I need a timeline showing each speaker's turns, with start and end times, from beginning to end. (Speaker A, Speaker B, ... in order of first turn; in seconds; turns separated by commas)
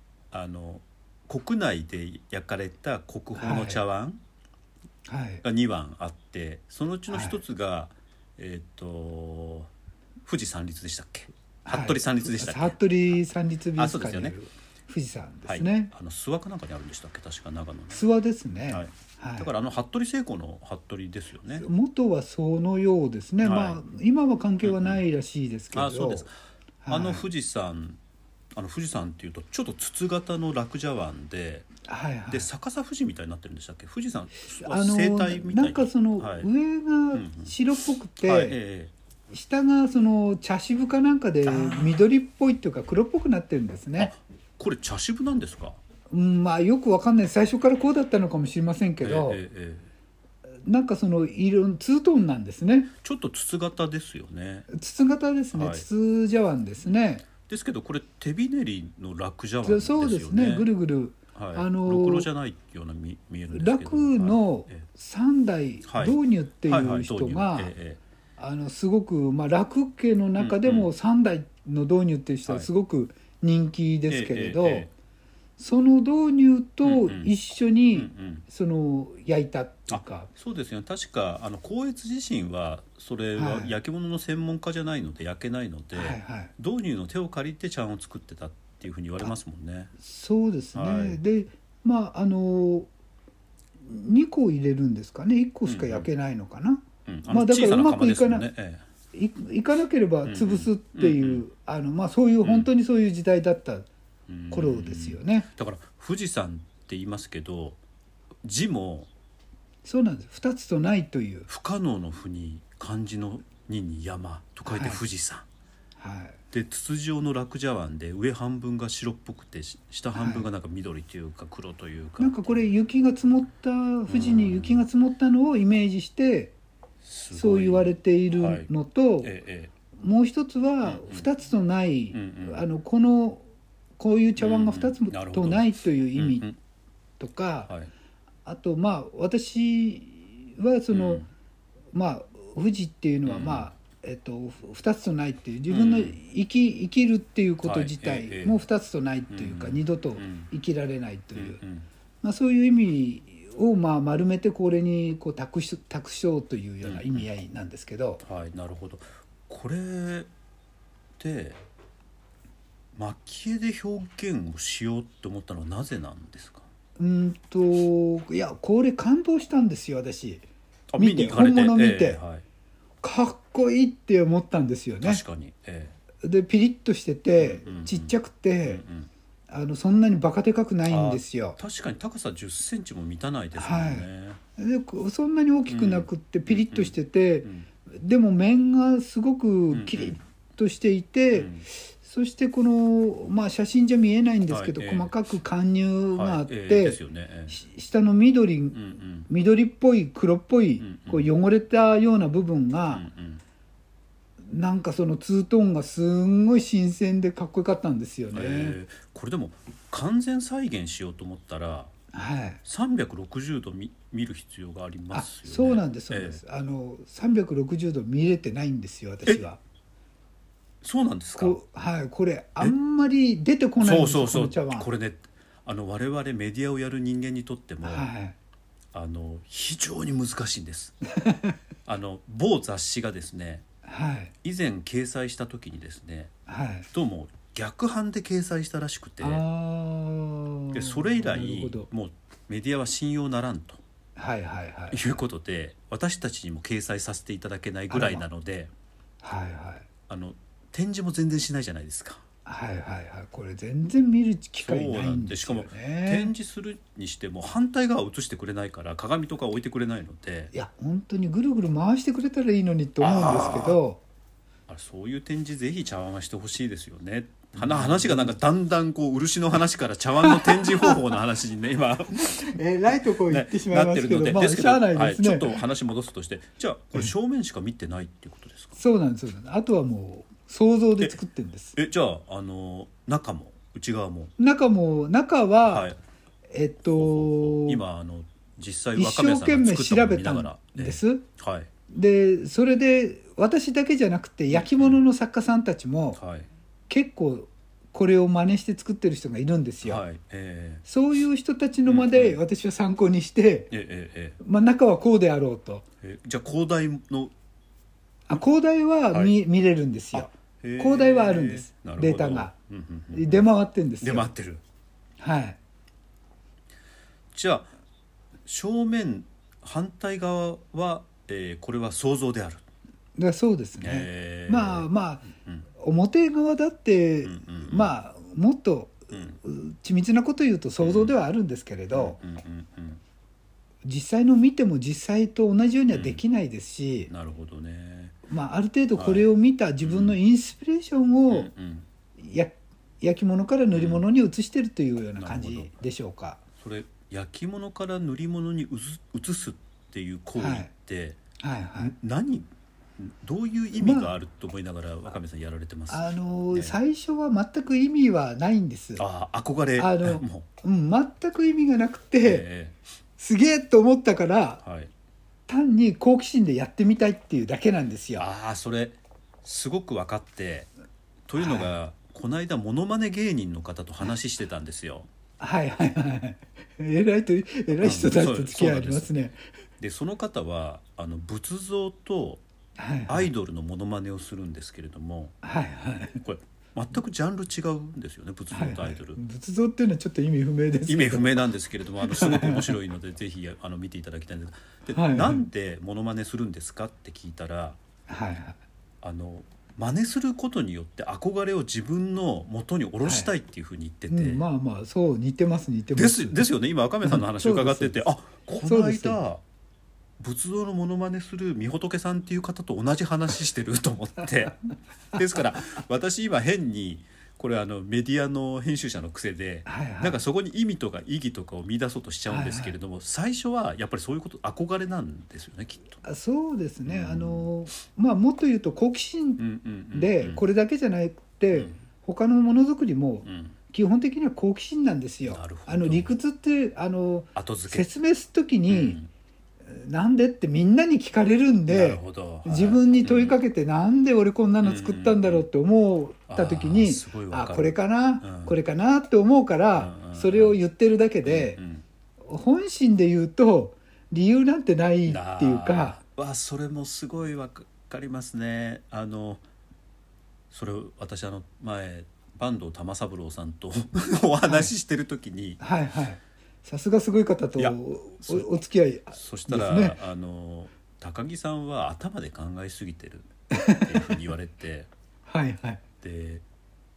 Speaker A: 0.3-4.2, Speaker B: 3.4-3.8, Speaker B: 5.1-5.4, Speaker A: 5.4-9.7, Speaker B: 7.1-7.4, Speaker A: 10.2-12.8, Speaker B: 11.6-15.9, Speaker A: 13.8-14.3, Speaker A: 15.4-18.0, Speaker B: 17.9-19.5, Speaker A: 18.7-21.7, Speaker B: 21.5-26.3, Speaker A: 23.4-23.8, Speaker A: 24.6-25.0, Speaker A: 25.7-26.3, Speaker B: 26.8-27.2, Speaker A: 26.9-28.0, Speaker A: 28.5-31.7, Speaker B: 31.8-32.5, Speaker A: 32.3-36.5, Speaker B: 34.6-38.6, Speaker A: 37.1-37.5, Speaker A: 38.2-38.9, Speaker B: 39.3-44.1, Speaker A: 41.4-42.1, Speaker A: 44.0-45.8, Speaker B: 46.1-49.4, Speaker A: 49.0-49.9, Speaker B: 50.6-52.9, Speaker A: 53.0-54.7, Speaker B: 54.7-57.2, Speaker A: 55.5-55.9, Speaker A: 57.3-60.7, Speaker B: 59.6-62.3, Speaker A: 61.3-64.8, Speaker B: 63.5-67.7, Speaker A: 65.8-68.0, Speaker B: 68.4-74.9, Speaker A: 70.4-70.9, Speaker A: 74.1-74.9, Speaker B: 75.6-80.3, Speaker A: 76.8-77.3, Speaker A: 77.9-78.4, Speaker A: 79.9-89.9, Speaker B: 83.3-83.7, Speaker B: 85.9-86.5, Speaker B: 90.0-92.9, Speaker A: 90.7-91.2, Speaker B: 93.8-98.5, Speaker A: 95.7-96.1, Speaker A: 97.1-98.8, Speaker B: 99.1-103.9, Speaker A: 100.2-101.4, Speaker A: 102.4-102.7, Speaker A: 104.3-107.8, Speaker B: 104.5-105.5, Speaker A: 108.4-109.1, Speaker B: 109.8-111.5, Speaker A: 111.5-115.5, Speaker B: 114.7-115.0, Speaker B: 116.0-116.4, Speaker A: 116.5-122.7, Speaker B: 120.1-120.5, Speaker B: 122.2-126.5, Speaker A: 124.1-124.8, Speaker A: 127.0-128.7, Speaker B: 127.3-129.3, Speaker A: 129.2-129.7, Speaker B: 130.0-133.4, Speaker A: 130.8-131.2, Speaker A: 132.1-132.6, Speaker B: 134.0-136.5, Speaker A: 134.4-136.6, Speaker B: 137.2-137.7, Speaker B: 138.4-141.2, Speaker A: 140.9-141.3, Speaker B: 141.9-151.6, Speaker A: 143.2-143.7, Speaker A: 145.7-146.2, Speaker A: 147.6-148.6, Speaker A: 149.3-150.5, Speaker A: 151.3-151.9, Speaker B: 152.2-158.2, Speaker A: 156.8-157.3, Speaker A: 158.2-160.3, Speaker A: 161.2-161.6, Speaker A: 162.9-166.7, Speaker B: 167.0-170.4, Speaker A: 170.9-172.4, Speaker B: 171.0-172.2, Speaker B: 173.0-175.2, Speaker A: 175.0-175.9, Speaker B: 176.2-178.8, Speaker A: 177.4-179.1, Speaker B: 179.5-181.6, Speaker A: 180.9-184.4, Speaker B: 183.6-184.1, Speaker B: 184.6-203.1, Speaker A: 185.7-187.7, Speaker A: 189.7-190.2, Speaker A: 191.3-191.6, Speaker A: 194.5-195.1, Speaker A: 196.1-197.6, Speaker A: 198.7-199.3, Speaker A: 200.8-201.3, Speaker A: 202.9-203.4, Speaker B: 204.5-208.8, Speaker A: 208.3-211.9, Speaker B: 212.1-212.6, Speaker A: 212.6-216.4, Speaker B: 215.1-219.6, Speaker A: 220.8-221.6, Speaker B: 221.4-224.9, Speaker A: 223.8-228.1, Speaker B: 227.8-228.3, Speaker A: 228.9-230.9, Speaker B: 231.2-231.6, Speaker A: 231.8-233.6, Speaker B: 233.8-234.3, Speaker A: 234.4-236.3, Speaker B: 236.5-236.9, Speaker A: 236.9-239.4, Speaker B: 239.2-241.9, Speaker A: 240.7-243.8, Speaker B: 244.2-245.1, Speaker A: 244.9-248.7, Speaker B: 247.9-248.2, Speaker B: 249.2-249.9, Speaker A: 250.1-252.2, Speaker B: 252.4-256.3, Speaker A: 254.6-260.5, Speaker B: 260.5-264.0, Speaker A: 263.0-263.8, Speaker A: 264.7-278.8, Speaker B: 267.6-268.4, Speaker B: 270.2-271.0, Speaker B: 272.1-275.6, Speaker B: 278.8-281.8, Speaker A: 281.8-284.3, Speaker B: 284.4-285.9, Speaker A: 285.6-286.0, Speaker B: 286.5-287.8, Speaker A: 286.9-291.7, Speaker B: 288.9-291.2, Speaker B: 291.9-296.2, Speaker A: 294.5-295.0, Speaker A: 296.2-296.5, Speaker B: 296.9-300.0, Speaker A: 299.8-300.8, Speaker B: 300.8-303.7, Speaker A: 301.9-302.4, Speaker A: 303.7-304.4, Speaker B: 304.4-305.9, Speaker A: 306.0-307.3, Speaker B: 308.3-312.5, Speaker A: 310.1-313.5, Speaker B: 313.1-314.3, Speaker A: 314.0-314.6, Speaker B: 315.2-315.6, Speaker A: 317.3-317.7, Speaker A: 318.4-322.6, Speaker B: 323.2-325.3, Speaker A: 323.8-325.6, Speaker B: 325.8-332.2, Speaker A: 327.2-327.9, Speaker A: 329.1-329.4, Speaker A: 330.8-331.2, Speaker A: 331.9-333.0, Speaker B: 333.8-337.1, Speaker A: 335.9-336.2, Speaker A: 337.1-338.2, Speaker B: 338.3-341.5, Speaker A: 338.9-339.3, Speaker A: 339.8-340.2, Speaker A: 341.3-341.9, Speaker B: 342.2-346.4, Speaker A: 343.7-344.1, Speaker A: 345.2-345.7, Speaker A: 346.6-351.2, Speaker B: 350.4-350.7, Speaker B: 351.4-351.9, Speaker A: 351.8-356.8, Speaker B: 353.8-354.1, Speaker B: 355.9-359.0, Speaker A: 359.0-360.4, Speaker B: 359.8-362.4, Speaker A: 362.2-362.8, Speaker B: 363.2-364.6, Speaker A: 364.6-364.9, Speaker B: 365.5-368.2, Speaker A: 368.2-370.7, Speaker A: 371.3-375.1, Speaker B: 371.4-371.7, Speaker B: 375.4-379.4, Speaker A: 377.8-379.1, Speaker A: 379.8-382.4, Speaker B: 382.8-383.3, Speaker A: 383.1-385.4, Speaker B: 385.4-386.2, Speaker A: 386.2-389.2, Speaker B: 388.5-391.4, Speaker A: 390.9-397.8, Speaker B: 392.0-392.8, Speaker B: 394.9-395.4, Speaker B: 398.1-398.6, Speaker A: 399.0-404.4, Speaker B: 403.0-403.3, Speaker B: 404.1-406.5, Speaker A: 405.9-409.4, Speaker B: 407.0-408.1, Speaker B: 408.6-409.2, Speaker A: 410.2-414.6, Speaker A: 415.1-426.0, Speaker B: 419.7-420.2, Speaker B: 422.3-422.7, Speaker B: 426.0-439.0, Speaker A: 426.9-427.5, Speaker A: 429.4-430.4, Speaker A: 433.2-433.6, Speaker A: 435.3-436.2, Speaker A: 437.3-437.9, Speaker A: 438.7-439.1, Speaker B: 439.7-451.6, Speaker A: 441.7-443.4, Speaker A: 444.6-445.4, Speaker A: 446.3-448.6, Speaker A: 449.7-450.6, Speaker A: 451.2-451.8, Speaker B: 452.2-456.0, Speaker A: 455.1-459.4, Speaker A: 460.5-465.6, Speaker B: 464.4-464.7, Speaker B: 465.6-470.0, Speaker A: 467.6-468.5, Speaker A: 469.1-474.9, Speaker B: 473.5-474.2, Speaker B: 475.3-475.8, Speaker A: 476.0-476.4